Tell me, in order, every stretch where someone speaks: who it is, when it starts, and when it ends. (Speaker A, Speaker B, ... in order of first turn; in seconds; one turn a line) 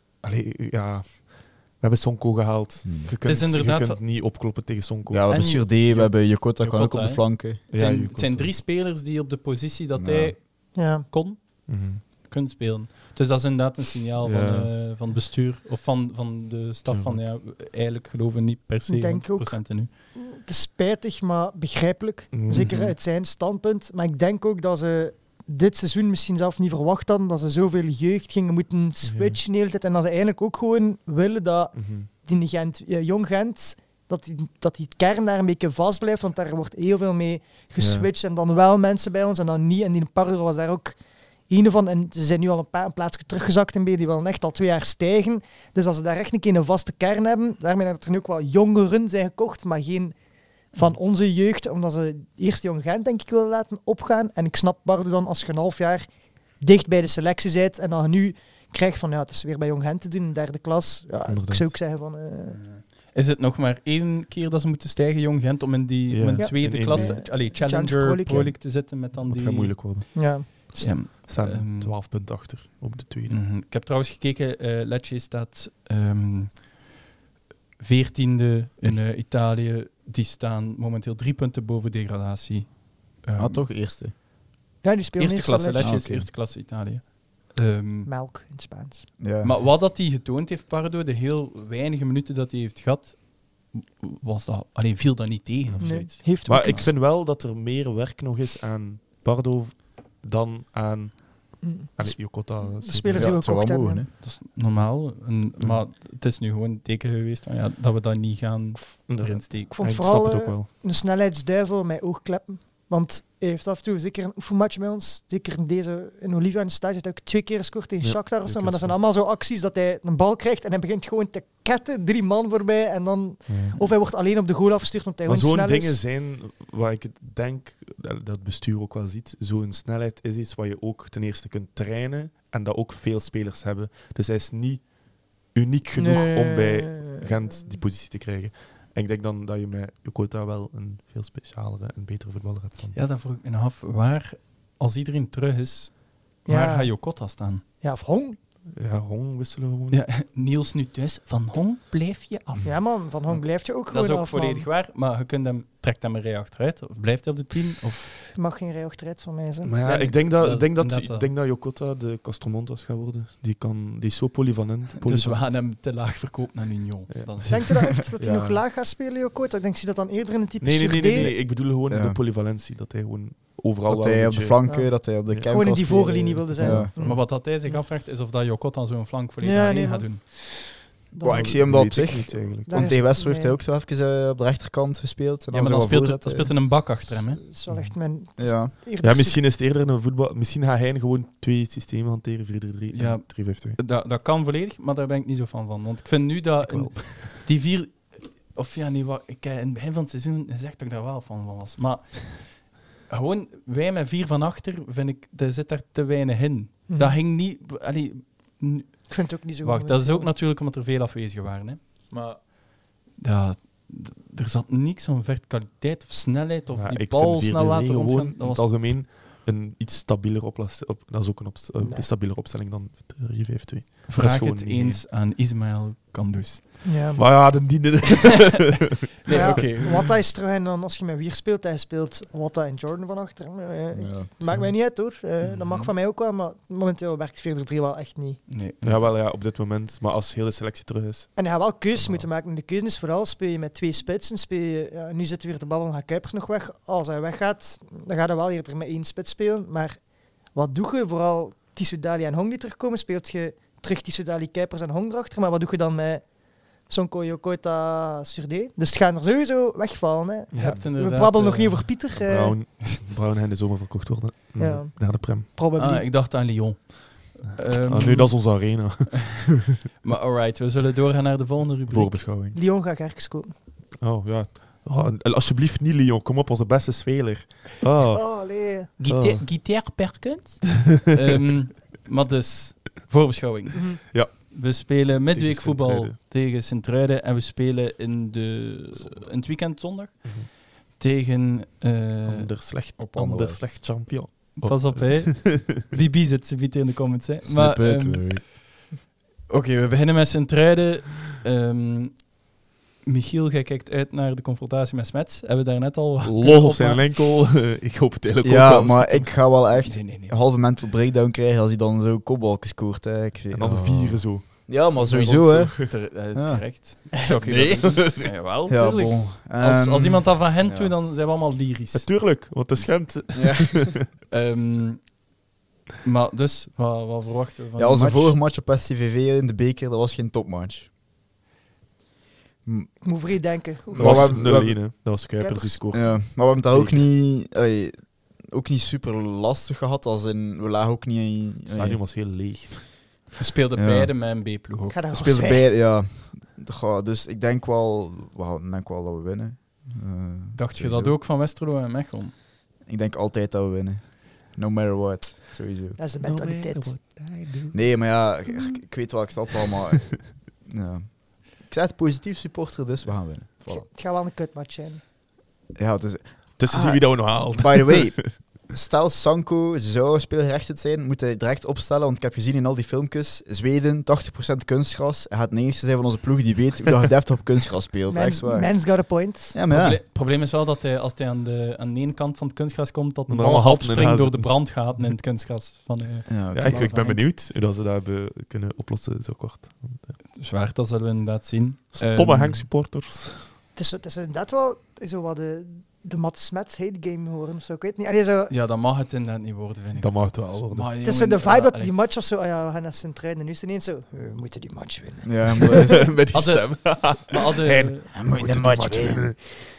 Speaker A: 0.2-5.4
Speaker B: 2.8-3.1
Speaker C: 3.2-4.0
Speaker B: 5.1-7.6
Speaker C: 5.3-19.9
Speaker A: 7.7-8.5
Speaker B: 9.9-10.4
Speaker D: 10.7-11.1
Speaker A: 11.7-12.0
Speaker A: 14.2-14.7
Speaker A: 16.9-17.2
Speaker D: 18.9-41.0
Speaker A: 22.3-22.8
Speaker C: 22.5-22.9
Speaker A: 29.0-29.4
Speaker A: 31.7-32.1
Speaker A: 37.8-38.1
Speaker D: 41.5-50.2
Speaker D: 50.7-62.6
Speaker A: 61.3-61.7
Speaker C: 62.5-70.1
Speaker A: 66.1-67.3
Speaker D: 66.4-68.5
Speaker A: 69.0-73.4
Speaker D: 70.1-71.1
Speaker C: 70.8-72.0
Speaker C: 73.3-76.7
Speaker C: 77.8-83.6
Speaker B: 83.4-84.1
Speaker D: 84.8-86.0
Speaker C: 85.2-88.1
Speaker B: 85.8-86.3
Speaker D: 88.0-89.1
Speaker B: 89.2-89.6
Speaker C: 89.4-96.9
Speaker A: 95.7-103.4
Speaker D: 95.8-96.9
Speaker D: 101.6-104.0
Speaker B: 103.2-104.1
Speaker C: 104.2-109.7
Speaker A: 109.1-110.7
Speaker D: 109.7-126.0
Speaker A: 118.0-119.0
Speaker A: 123.5-123.8
Speaker A: 125.2-143.0
Speaker D: 136.0-137.6
Speaker C: 142.9-147.6
Speaker D: 146.4-147.2
Speaker D: 147.8-148.4
Speaker A: 148.7-150.0
Speaker C: 149.9-158.1
Speaker D: 152.6-154.7
Speaker D: 158.3-159.7
Speaker A: 159.6-165.5
Speaker C: 159.8-161.3
Speaker C: 165.0-167.8
Speaker A: 167.1-168.6
Speaker D: 167.5-171.3
Speaker A: 170.6-175.5
Speaker B: 171.2-172.2
Speaker B: 173.8-176.9
Speaker D: 174.6-177.8
Speaker C: 176.6-180.2
Speaker D: 179.4-181.7
Speaker B: 181.2-186.8
Speaker A: 181.2-182.9
Speaker D: 182.7-183.6
Speaker C: 185.5-187.5
Speaker D: 187.4-189.4
Speaker B: 188.4-188.7
Speaker A: 189.0-193.8
Speaker C: 192.9-218.7
Speaker A: 196.6-197.3
Speaker D: 206.9-207.2
Speaker D: 209.1-210.3
Speaker A: 216.7-225.0
Speaker D: 221.8-222.1
Speaker C: 224.1-226.7
Speaker D: 226.8-227.3
Speaker A: 227.2-230.1
Speaker C: 229.2-230.1
Speaker D: 229.3-238.4
Speaker B: 233.9-234.3
Speaker C: 235.4-235.9
Speaker C: 238.5-239.1
Speaker A: 238.8-241.3
Speaker D: 241.3-262.6
Speaker A: 260.5-260.8
Speaker C: 260.6-262.0
Speaker A: 262.1-265.4
Speaker D: 264.6-266.1
Speaker C: 265.7-268.6
Speaker A: 267.7-269.7
Speaker C: 270.0-272.2
Speaker A: 271.9-272.6
Speaker D: 272.5-273.5
Speaker A: 274.0-278.6
Speaker D: 278.1-278.9
Speaker C: 279.0-292.5
Speaker A: 279.1-279.4
Speaker D: 283.7-284.0
Speaker A: 284.1-286.1
Speaker A: 290.2-290.5
Speaker A: 292.2-295.6
Speaker B: 293.0-293.7
Speaker C: 294.6-298.6
Speaker B: 297.4-298.4
Speaker C: 299.5-302.3
Speaker C: 303.0-307.0
Speaker A: 306.2-309.4
Speaker B: 308.4-316.6
Speaker C: 309.8-310.4
Speaker A: 313.5-315.9
Speaker C: 315.7-322.2
Speaker A: 317.4-318.3
Speaker B: 318.7-320.9
Speaker A: 321.9-324.0
Speaker B: 323.3-323.9
Speaker C: 324.3-325.2
Speaker C: 326.0-328.4
Speaker B: 327.8-330.9
Speaker B: 332.6-332.9
Speaker D: 333.0-334.8
Speaker B: 333.9-334.8
Speaker A: 333.9-337.0
Speaker D: 335.4-335.8
Speaker B: 335.9-342.0
Speaker A: 341.7-342.9
Speaker C: 343.4-345.0
Speaker B: 343.8-344.1
Speaker D: 344.9-345.7
Speaker B: 345.1-351.2
Speaker C: 350.5-352.3
Speaker B: 352.8-356.0
Speaker D: 356.0-356.9
Speaker A: 356.2-358.2
Speaker B: 357.7-363.9
Speaker D: 363.7-365.0
Speaker B: 365.7-380.0
Speaker A: 366.6-368.3
Speaker D: 378.1-379.6
Speaker C: 379.7-387.2
Speaker A: 383.3-385.0
Speaker B: 386.3-386.9
Speaker A: 386.5-390.2
Speaker C: 390.3-392.7
Speaker A: 391.9-393.5
Speaker D: 393.7-398.5
Speaker C: 398.5-401.9
Speaker A: 400.0-400.9
Speaker D: 401.0-406.0
Speaker B: 405.2-406.3
Speaker A: 405.6-409.6
Speaker C: 406.3-408.1
Speaker B: 408.1-409.4